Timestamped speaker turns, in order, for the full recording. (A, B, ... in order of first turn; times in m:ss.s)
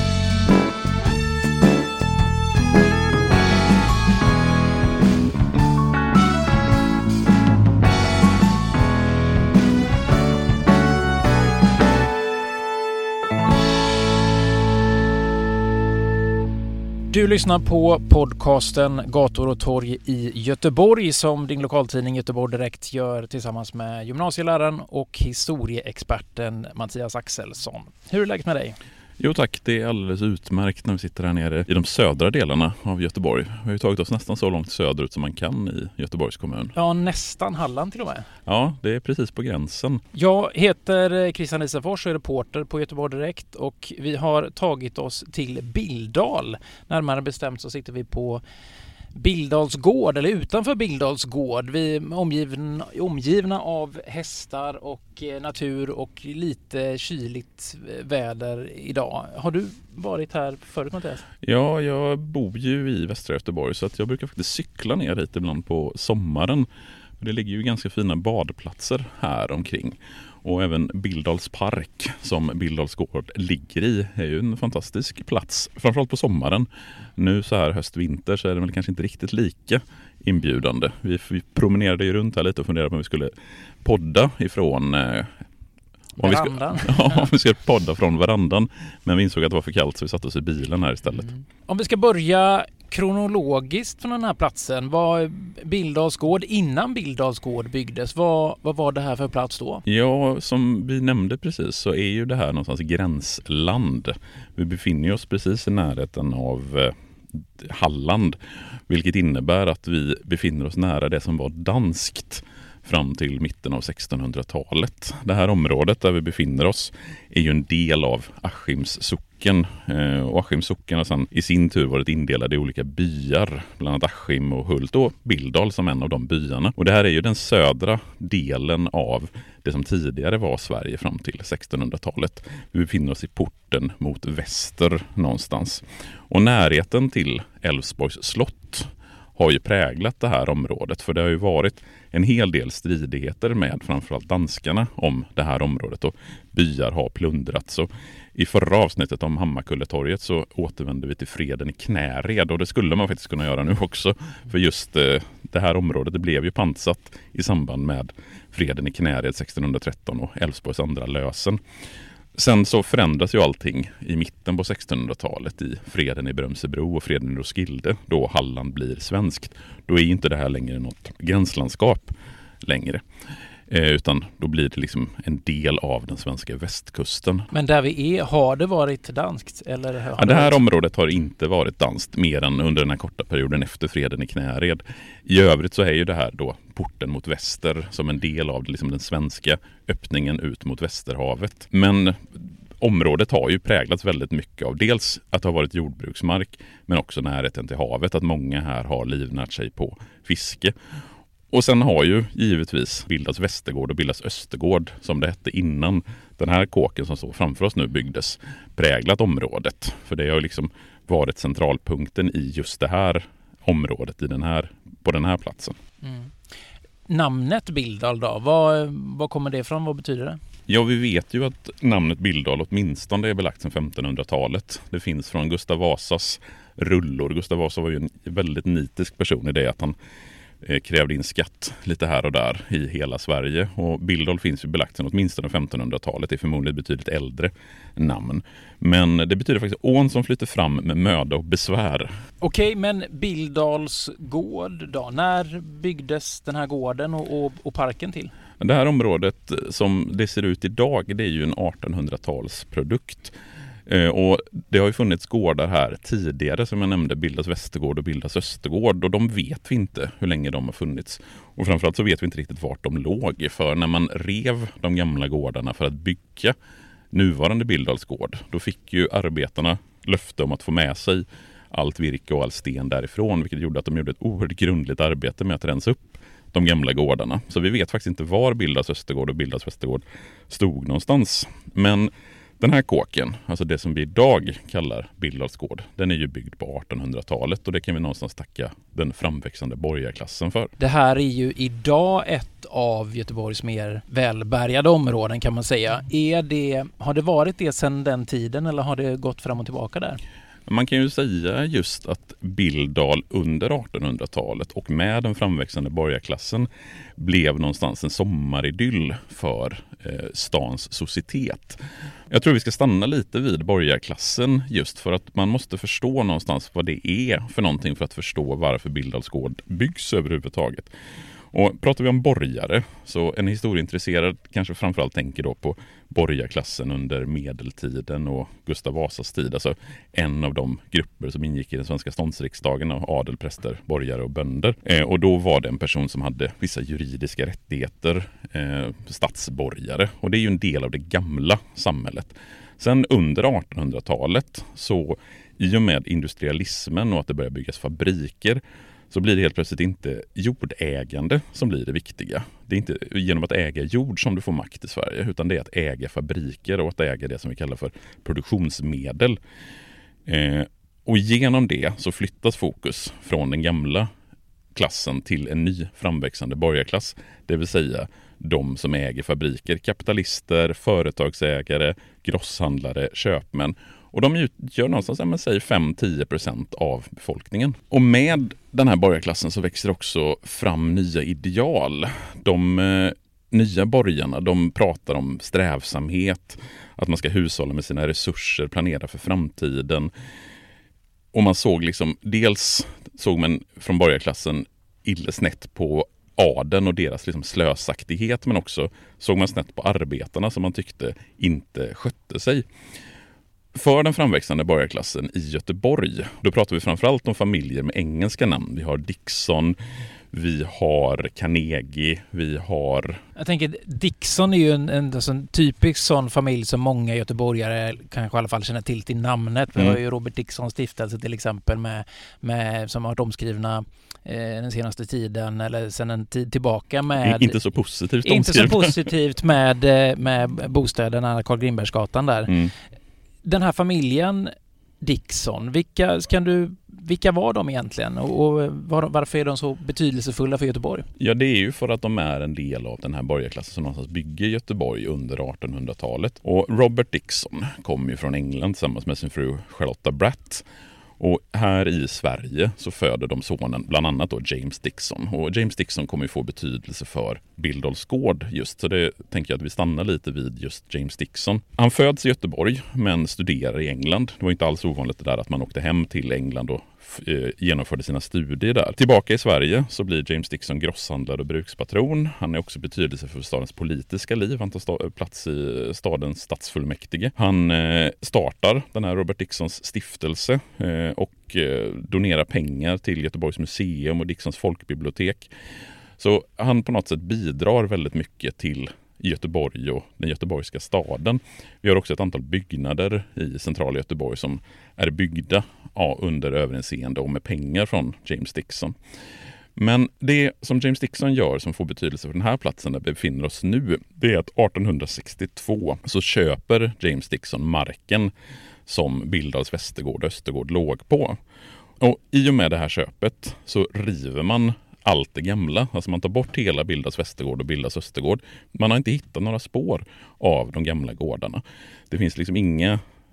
0:17.1-0:28.8 A
0:29.2-0:36.7 B
0:36.7-0:38.3 A
0:38.5-0:40.0 B
0:40.1-0:48.4 A
0:49.2-1:01.2 A
1:01.4-1:06.7 B
1:07.2-1:25.3 B
1:26.2-1:27.3 A
1:26.2-1:31.3 B
1:31.7-1:39.8 A
1:39.9-2:41.6 B
2:42.3-2:53.0 B
2:53.7-2:57.5 B
2:57.5-3:00.6 A
3:00.2-3:20.8 B
3:21.5-3:35.8 B
3:36.0-3:36.3 A
3:37.1-3:40.4 A
3:40.7-3:50.0 B
3:50.6-4:02.1 B
4:02.4-4:08.3 A
4:08.6-4:13.4 B
4:13.9-4:26.6 B
4:27.1-4:50.7 B
4:50.8-5:00.2 A
5:00.7-5:20.9 B
5:21.5-5:59.4 B
6:00.3-6:04.1 B
6:04.8-6:30.1 B
6:31.3-6:42.7 B
6:43.7-6:49.8 B
6:50.3-6:53.2 B
6:53.4-7:07.6 A
7:07.2-7:09.1 B
7:08.2-7:12.6 A
7:12.5-7:12.7 B
7:13.4-7:21.1 A
7:21.2-7:30.7 B
7:31.2-8:05.5 B
8:06.2-8:19.0 B
8:19.8-8:28.3 B
8:28.9-8:31.4 B
8:32.0-8:43.0 B